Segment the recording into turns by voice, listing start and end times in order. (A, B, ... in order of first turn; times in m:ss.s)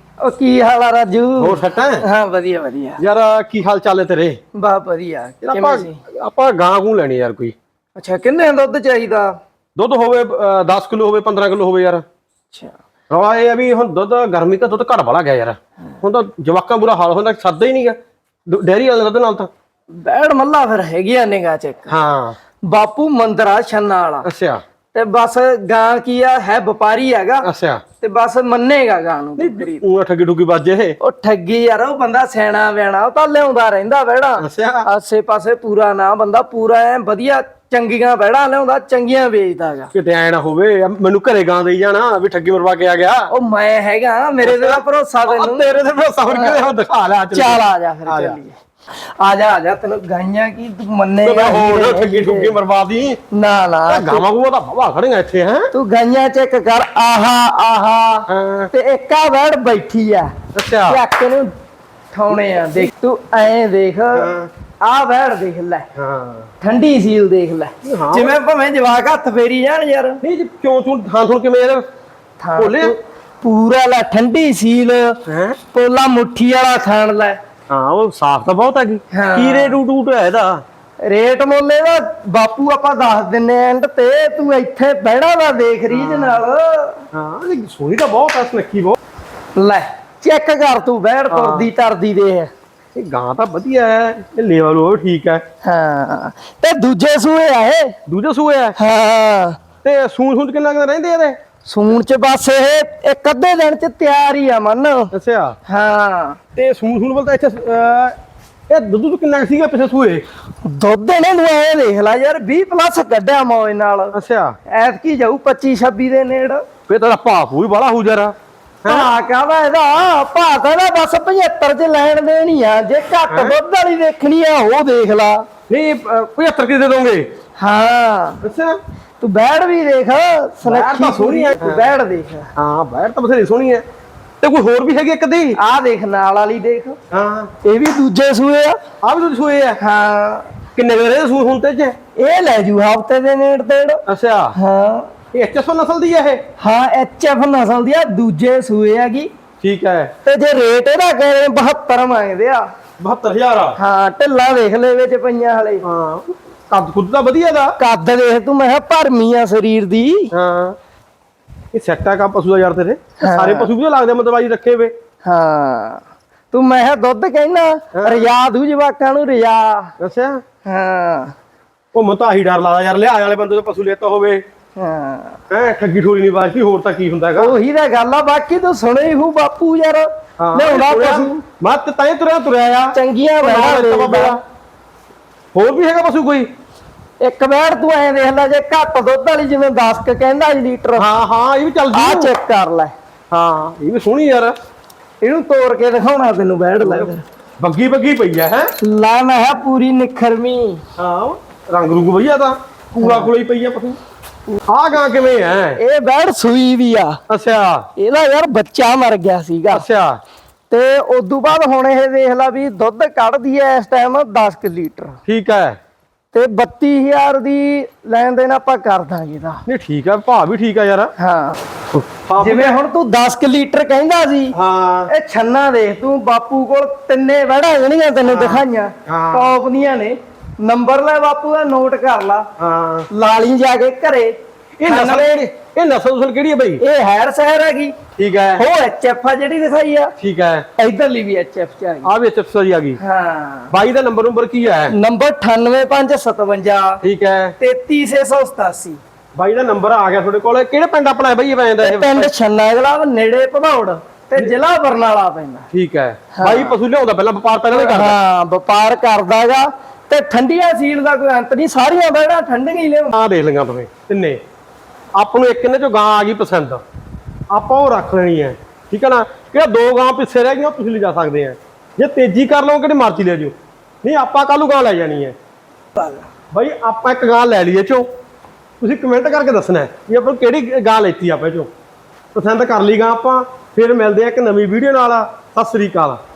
0:00.2-0:03.0 A
0:01.4-0:02.0 B
0:03.0-0:04.4 B
0:04.6-0:06.0 A
0:05.4-0:07.6 B
0:08.0-0:09.3 A
0:09.8-0:12.0 B
0:13.1-0:18.0 B
0:18.5-0:19.5 B
0:20.0-0:21.9 A
0:21.9-0:22.4 B
0:22.7-0:24.3 A
0:24.2-0:24.6 B
0:24.9-0:27.5 A
0:27.4-0:27.8 B
0:28.0-0:29.8 A
0:29.4-0:31.0 B
0:31.0-0:39.9 A
0:34.4-0:34.9 B
0:39.9-0:43.3 B
0:43.3-0:45.7 A
0:44.4-0:48.4 B
0:46.3-0:46.7 A
0:47.3-0:52.6 A
0:51.2-0:53.2 B
0:53.3-0:54.2 A
0:53.9-0:55.7 B
0:55.7-1:00.3 A
0:58.3-0:58.7 B
1:00.6-1:01.0 B
1:00.9-1:01.5 A
1:02.1-1:04.3 A
1:04.1-1:04.5 B
1:04.8-1:05.9 A
1:06.0-1:06.5 B
1:06.6-1:10.2 A
1:07.8-1:08.4 B
1:10.2-1:11.8 B
1:12.4-1:15.2 A
1:12.6-1:13.0 B
1:15.3-1:15.6 B
1:15.7-1:17.4 A
1:17.7-1:20.6 B
1:19.1-1:19.8 A
1:21.0-1:27.0 A
1:25.9-1:26.4 B
1:27.1-1:29.0 B
1:29.6-1:32.5 A
1:31.3-1:31.7 B
1:33.0-1:35.4 B
1:35.6-1:38.0 A
1:38.1-1:38.8 B
1:38.8-1:39.6 A
1:39.8-1:41.4 B
1:41.7-1:45.1 A
1:45.1-1:45.6 B
1:45.7-1:46.4 A
1:46.6-1:48.2 B
1:48.7-1:50.2 B
1:50.6-1:54.1 A
1:54.1-1:54.6 B
1:54.7-1:56.6 A
1:56.9-1:59.1 B
1:58.9-2:05.4 A
2:03.3-2:03.6 B
2:05.7-2:07.3 B
2:07.6-2:08.4 A
2:08.4-2:08.8 B
2:09.2-2:12.5 A
2:10.6-2:11.8 B
2:12.6-2:13.8 B
2:14.4-2:15.6 B
2:15.6-2:17.0 A
2:17.1-2:17.5 B
2:17.6-2:18.8 A
2:19.0-2:19.8 B
2:19.8-2:20.5 A
2:20.8-2:22.0 B
2:22.2-2:24.0 A
2:24.1-2:24.6 B
2:24.6-2:25.1 A
2:25.3-2:26.4 B
2:26.6-2:29.3 A
2:29.6-2:30.1 B
2:30.2-2:32.7 A
2:33.0-2:33.8 B
2:33.8-2:35.8 A
2:35.8-2:37.8 B
2:37.8-2:40.3 A
2:40.3-2:40.8 B
2:41.7-2:44.9 B
2:43.2-2:43.7 A
2:45.2-2:49.9 A
2:48.0-2:48.3 B
2:50.0-2:50.4 B
2:50.6-2:51.3 A
2:51.9-2:54.4 B
2:54.8-2:55.4 A
2:55.5-2:57.6 B
2:57.4-3:01.4 A
3:00.4-3:04.4 B
3:02.9-3:04.4 A
3:05.5-3:06.5 B
3:07.2-3:11.1 A
3:11.0-3:12.3 B
3:11.9-3:12.9 A
3:13.3-3:14.6 B
3:15.2-3:17.2 A
3:16.8-3:18.7 B
3:18.8-3:20.8 A
3:21.0-3:24.0 B
3:23.0-3:23.3 A
3:24.7-3:25.8 B
3:25.8-3:27.2 A
3:27.3-3:27.9 B
3:28.0-3:29.8 A
3:29.7-3:30.2 B
3:30.7-3:35.2 A
3:35.3-3:35.8 B
3:36.3-3:39.6 A
3:39.7-3:41.1 B
3:41.2-3:41.6 A
3:41.9-3:42.8 B
3:42.4-3:44.6 A
3:44.5-3:45.1 B
3:45.1-3:52.5 A
3:48.3-3:49.5 B
3:52.6-3:53.1 B
3:53.1-3:54.3 A
3:54.8-3:56.8 B
3:54.9-3:55.4 A
3:56.8-3:58.0 A
3:58.2-3:58.6 B
3:58.6-4:00.1 A
4:00.2-4:00.7 B
4:00.8-4:02.1 A
4:02.0-4:03.0 B
4:03.0-4:03.7 A
4:03.7-4:05.0 B
4:04.9-4:07.0 A
4:07.0-4:07.6 B
4:07.6-4:09.0 A
4:09.4-4:12.3 B
4:11.8-4:15.7 A
4:15.7-4:18.2 B
4:16.4-4:16.8 A
4:17.7-4:23.1 A
4:23.1-4:24.4 B
4:25.2-4:26.8 B
4:27.5-4:35.4 B
4:36.0-4:36.2 A
4:36.5-4:38.1 B
4:38.8-4:41.7 B
4:42.4-4:46.2 B